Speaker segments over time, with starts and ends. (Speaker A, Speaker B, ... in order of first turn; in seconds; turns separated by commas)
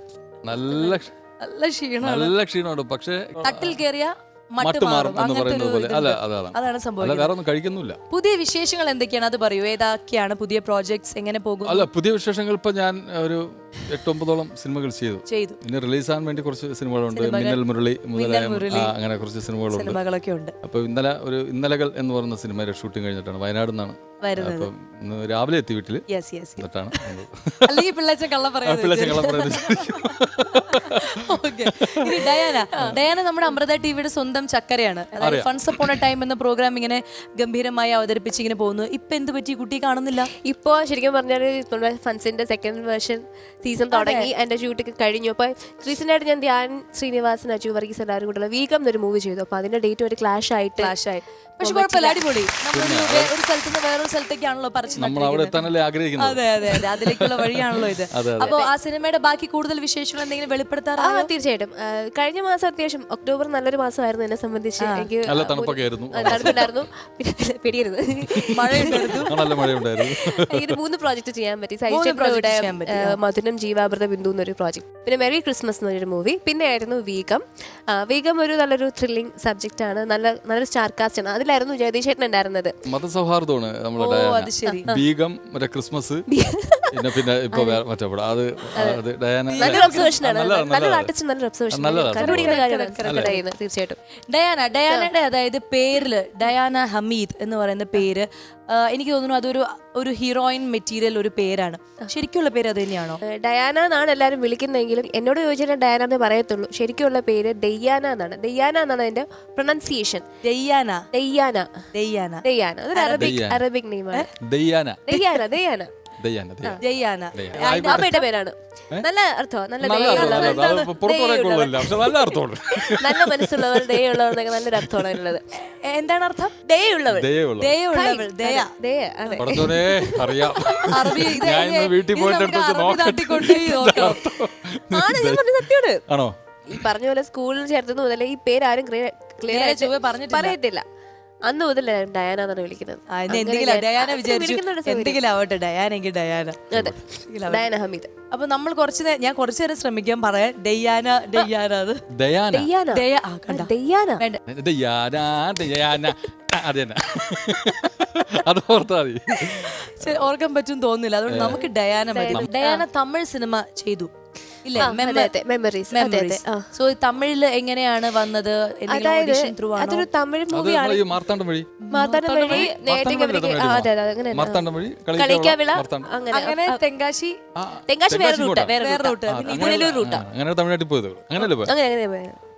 Speaker A: 0.4-1.1, Speaker B: 0.7-2.3, Speaker A: 2.0-3.8, Speaker B: 3.4-7.3, Speaker A: 4.6-8.0, Speaker B: 8.1-11.9, Speaker A: 11.6-20.0, Speaker B: 15.3-15.6, Speaker B: 17.1-17.6, Speaker B: 18.1-18.9, Speaker B: 19.7-20.5, Speaker A: 20.6-26.1, Speaker B: 24.2-24.7, Speaker B: 26.1-30.0, Speaker A: 26.6-27.9, Speaker A: 28.6-33.0, Speaker B: 30.5-40.3, Speaker A: 35.2-36.0, Speaker C: 40.4-52.2, Speaker B: 43.9-44.3, Speaker B: 50.8-55.6, Speaker A: 52.7-53.3, Speaker A: 55.0-58.5, Speaker B: 56.2-61.3, Speaker C: 58.4-58.7, Speaker C: 61.0-82.8, Speaker B: 64.8-65.1, Speaker A: 65.3-66.8, Speaker B: 66.3-66.5, Speaker A: 68.3-70.8, Speaker B: 68.5-69.3, Speaker B: 71.9-73.2, Speaker A: 82.9-86.3, Speaker B: 84.0-84.9, Speaker C: 84.7-85.0, Speaker C: 86.3-87.8, Speaker A: 86.9-91.1, Speaker C: 88.8-89.0, Speaker B: 89.6-90.2, Speaker C: 89.6-94.0, Speaker A: 91.7-93.3, Speaker B: 92.2-93.4, Speaker B: 94.3-103.2, Speaker C: 103.3-110.3, Speaker B: 110.4-111.0, Speaker C: 111.1-111.7, Speaker B: 111.9-112.4, Speaker C: 112.4-114.3, Speaker B: 112.9-113.4, Speaker A: 113.2-113.6, Speaker A: 114.4-115.1, Speaker C: 115.1-115.9, Speaker A: 116.2-118.1, Speaker B: 116.8-118.2, Speaker C: 117.8-125.5, Speaker A: 119.8-125.3, Speaker B: 120.0-120.9, Speaker B: 125.8-126.5, Speaker C: 126.7-127.3, Speaker A: 127.1-127.8, Speaker B: 127.6-128.7, Speaker C: 127.9-131.6, Speaker B: 129.2-129.6, Speaker A: 129.4-136.9, Speaker B: 130.8-134.3, Speaker C: 134.9-136.0, Speaker C: 136.7-140.8, Speaker B: 139.5-140.6, Speaker C: 141.5-145.2, Speaker B: 143.1-146.6, Speaker C: 146.7-148.1, Speaker B: 147.3-147.7, Speaker B: 148.3-152.0, Speaker A: 152.1-152.7, Speaker C: 152.5-154.2, Speaker B: 152.9-154.4, Speaker A: 154.5-160.3, Speaker B: 159.4-164.1, Speaker A: 161.3-161.6, Speaker C: 161.4-162.8, Speaker B: 164.6-165.3, Speaker C: 164.8-166.7, Speaker B: 165.9-170.1, Speaker C: 168.9-171.1, Speaker A: 170.5-171.8, Speaker B: 171.8-172.7, Speaker C: 171.9-176.8, Speaker A: 172.5-176.1, Speaker B: 176.3-177.4, Speaker A: 177.6-178.8, Speaker C: 177.9-180.3, Speaker B: 178.8-180.0, Speaker A: 179.3-181.7, Speaker C: 181.4-182.4